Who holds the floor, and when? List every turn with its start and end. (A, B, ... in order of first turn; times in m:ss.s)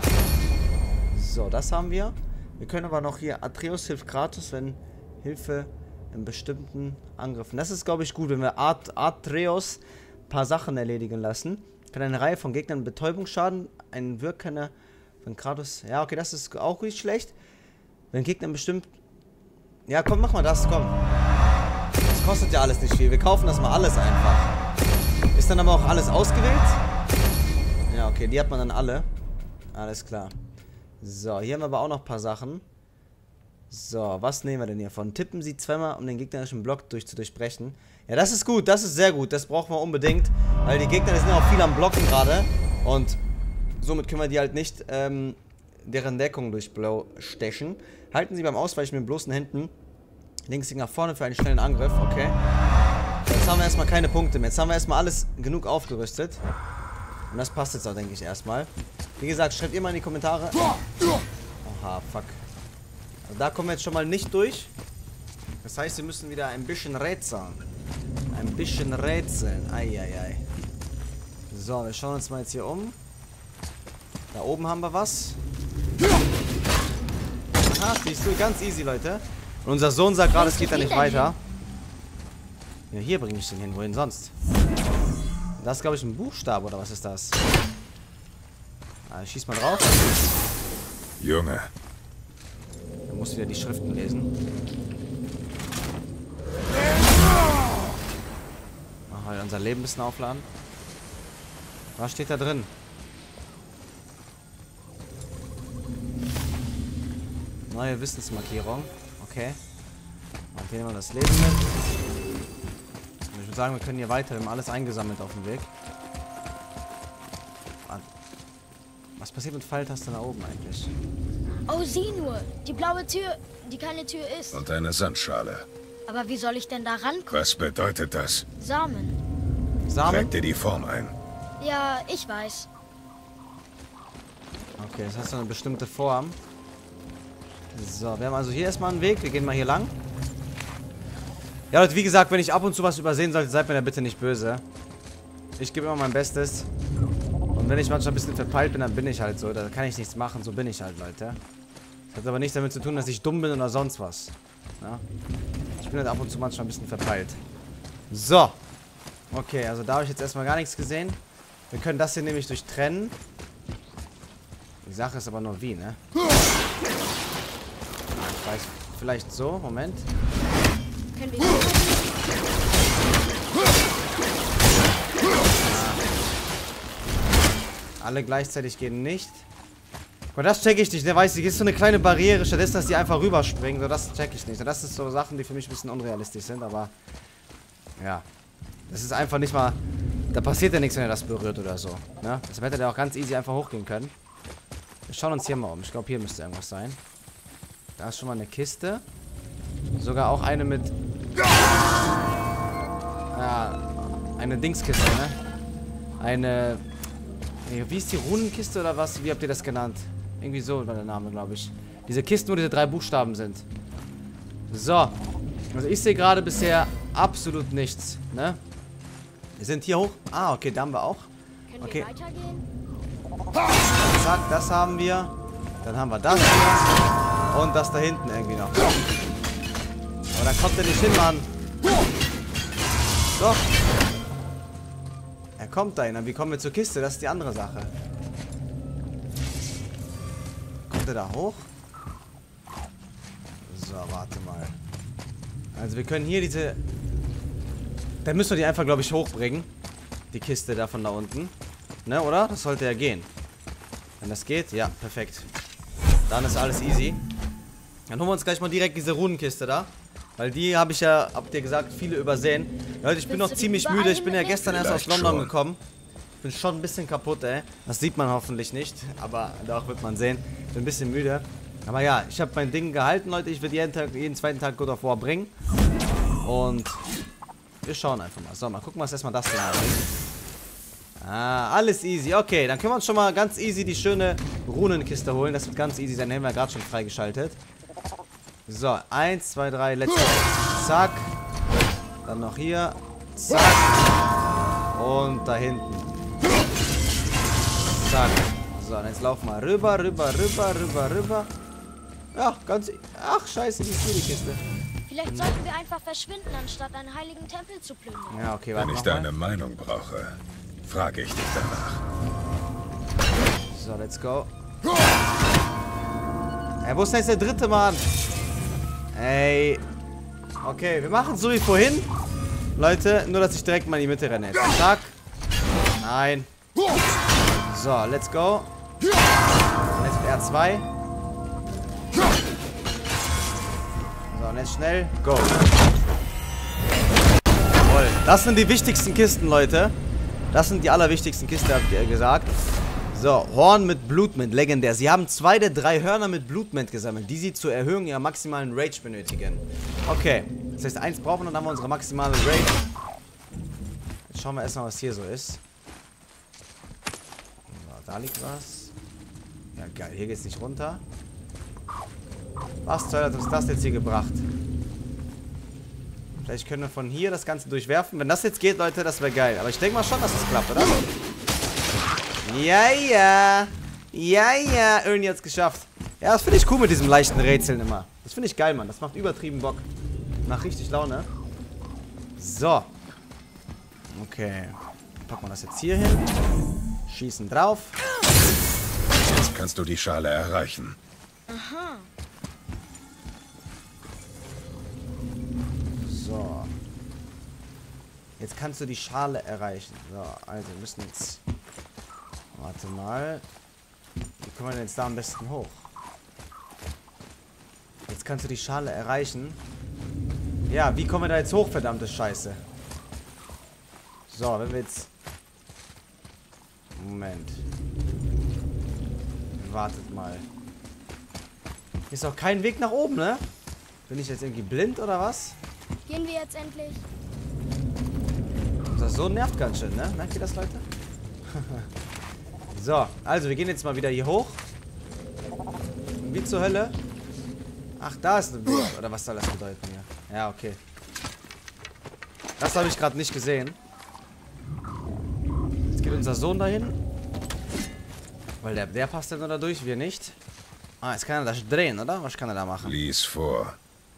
0:01.1-0:14.7 A
0:15.2-0:17.3 A
0:18.1-0:18.9 A
0:19.9-0:21.0 A
0:22.1-0:24.5 A
0:25.3-0:26.8 A
0:27.9-0:29.1 A
0:29.7-0:30.3 A
0:31.0-0:32.6 A
0:33.7-0:43.2 A
0:43.8-0:49.7 A
0:50.5-0:52.4 A
0:53.3-0:56.4 A
0:57.3-1:00.7 A
1:01.6-1:02.4 A
1:03.3-1:04.7 A
1:05.6-1:07.6 A
1:08.3-1:10.4 A
1:11.5-1:13.0 A
1:14.3-1:15.4 A
1:17.7-1:21.4 A
1:20.3-1:21.3 B
1:22.9-1:24.3 A
1:25.6-1:27.4 A
1:29.1-1:30.0 A
1:31.2-1:31.7 C
1:33.1-1:34.3 A
1:39.1-1:40.5 A
1:42.0-1:42.7 A
1:47.7-1:49.6 A
1:50.5-1:51.6 A
1:53.3-1:55.7 A
1:59.2-2:00.9 A
2:01.7-2:04.6 B
2:04.5-2:05.7 C
2:06.1-2:07.5 B
2:07.3-2:08.5 C
2:08.6-2:09.2 B
2:09.9-2:10.3 A
2:10.0-2:11.2 C
2:11.6-2:12.7 B
2:14.8-2:16.4 A
2:17.7-2:19.9 A
2:21.7-2:24.6 A
2:25.6-2:26.7 A
2:27.6-2:31.4 A
2:32.1-2:35.0 A
2:35.8-2:37.4 A
2:38.1-2:38.6 A
2:39.3-2:41.2 A
2:41.7-2:43.2 A
2:44.8-2:46.0 A
2:48.1-2:50.1 A
2:51.2-2:52.2 B
2:55.6-2:56.1 A
2:58.0-2:59.4 A
3:00.4-3:06.9 A
3:08.0-3:08.2 A
3:08.9-3:09.8 A
3:10.3-3:14.1 A
3:15.1-3:17.0 A
3:18.0-3:19.0 A
3:20.0-3:20.9 A
3:23.3-3:25.4 A
3:26.2-3:26.8 A
3:27.7-3:33.7 A
3:34.7-3:35.2 A
3:35.7-3:38.6 A
3:39.6-3:41.3 A
3:41.7-3:42.6 B
3:41.8-3:42.1 A
3:44.0-3:46.9 A
3:47.5-3:48.9 A
3:50.3-3:51.5 A
3:53.4-3:53.6 A
3:55.6-3:57.9 A
4:00.9-4:01.7 A
4:03.6-4:04.7 A
4:05.8-4:06.8 A
4:08.2-4:09.7 A
4:10.3-4:11.5 A
4:12.1-4:13.3 A
4:14.2-4:15.5 A
4:16.3-4:17.2 A
4:18.1-4:25.8 A
4:23.3-4:24.6 B
4:24.6-4:25.5 C
4:26.4-4:35.5 A
4:36.4-4:37.0 A
4:37.8-4:40.0 A
4:41.2-4:47.6 A
4:48.7-4:51.3 A
4:52.2-4:54.1 A
4:54.9-4:56.1 A
4:58.0-5:01.5 A
5:02.3-5:04.6 A
5:05.1-5:08.4 B
5:05.3-5:05.5 A
5:08.3-5:09.3 A
5:08.8-5:12.0 C
5:13.7-5:14.5 A
5:16.8-5:18.0 A
5:19.1-5:19.8 A
5:20.6-5:22.1 A
5:22.8-5:25.2 A
5:26.0-5:26.5 A
5:27.7-5:28.7 A
5:30.0-5:30.9 A
5:34.3-5:35.6 A
5:37.9-5:39.9 A
5:40.5-5:42.5 A
5:43.1-5:52.8 A
5:54.3-5:55.6 A
5:57.7-5:58.9 A
5:59.8-6:01.0 A
6:02.8-6:04.4 A
6:06.4-6:11.1 A
6:12.4-6:19.8 A
6:20.4-6:21.3 A
6:22.4-6:22.9 A
6:24.1-6:26.3 A
6:27.1-6:28.0 A
6:29.2-6:31.0 C
6:31.5-6:32.1 B
6:36.0-6:36.7 A
6:38.4-6:41.4 A
6:42.5-6:43.4 A
6:44.4-6:45.8 A
6:48.1-6:49.6 A
6:50.7-6:52.6 A
6:54.3-6:55.1 A
6:57.0-6:57.6 A
6:59.6-7:00.4 A
7:02.1-7:03.4 A
7:04.1-7:05.6 A
7:06.1-7:07.0 B
7:08.9-7:10.8 A
7:11.5-7:11.9 A
7:12.7-7:14.6 A
7:16.2-7:17.0 A
7:18.0-7:20.8 A
7:22.6-7:23.8 A
7:25.9-7:27.0 A
7:28.6-7:30.4 A
7:31.0-7:33.0 A
7:32.8-7:33.8 C